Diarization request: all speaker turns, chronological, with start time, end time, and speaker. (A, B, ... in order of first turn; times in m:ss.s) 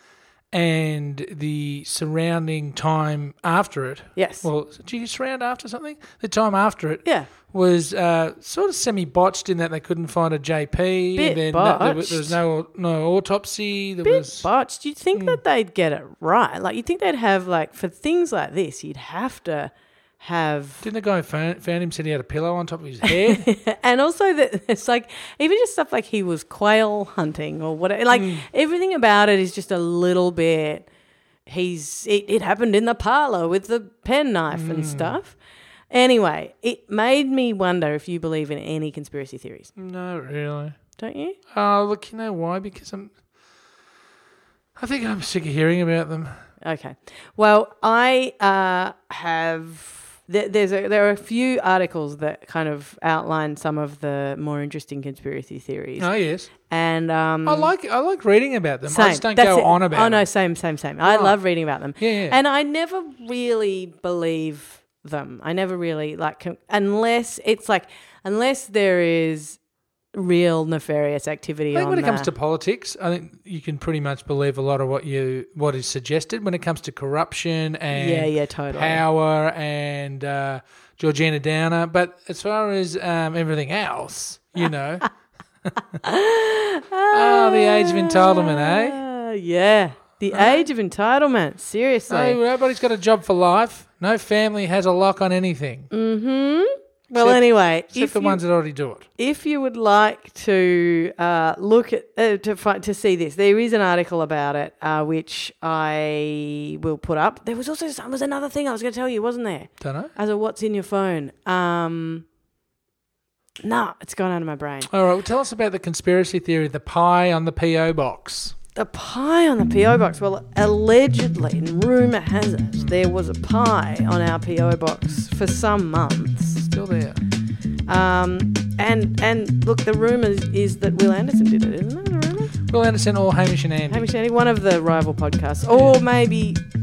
0:00.5-0:14.5 A
0:04.2-0:04.5 B
0:07.0-0:07.3 B
0:11.2-0:12.4 B
0:14.0-0:20.8 B
0:15.1-0:15.4 A
0:20.8-0:23.5 A
0:23.0-0:30.9 B
0:28.1-0:28.4 A
0:31.4-0:35.4 B
0:34.5-0:35.1 A
0:35.9-0:39.7 B
0:39.8-0:40.8 A
0:41.0-0:41.4 B
0:41.5-0:43.1 A
0:44.8-0:46.3 A
0:46.6-0:56.1 B
0:56.0-0:56.5 A
0:56.6-0:57.7 B
0:57.4-1:00.2 A
0:58.9-1:09.6 B
1:01.0-1:01.4 A
1:02.0-1:02.4 A
1:10.1-1:12.3 B
1:11.7-1:25.1 A
1:17.9-1:19.0 B
1:26.0-1:32.4 B
1:27.1-1:29.0 A
1:30.3-1:30.6 A
1:32.1-1:35.9 A
1:35.9-1:38.4 B
1:37.1-1:39.1 A
1:39.2-1:52.2 B
1:49.8-1:50.1 A
1:53.6-1:54.9 B
1:54.9-1:58.5 A
1:58.7-2:06.6 B
2:06.6-2:07.2 A
2:07.9-2:12.5 B
2:12.7-2:14.1 A
2:13.9-2:16.6 B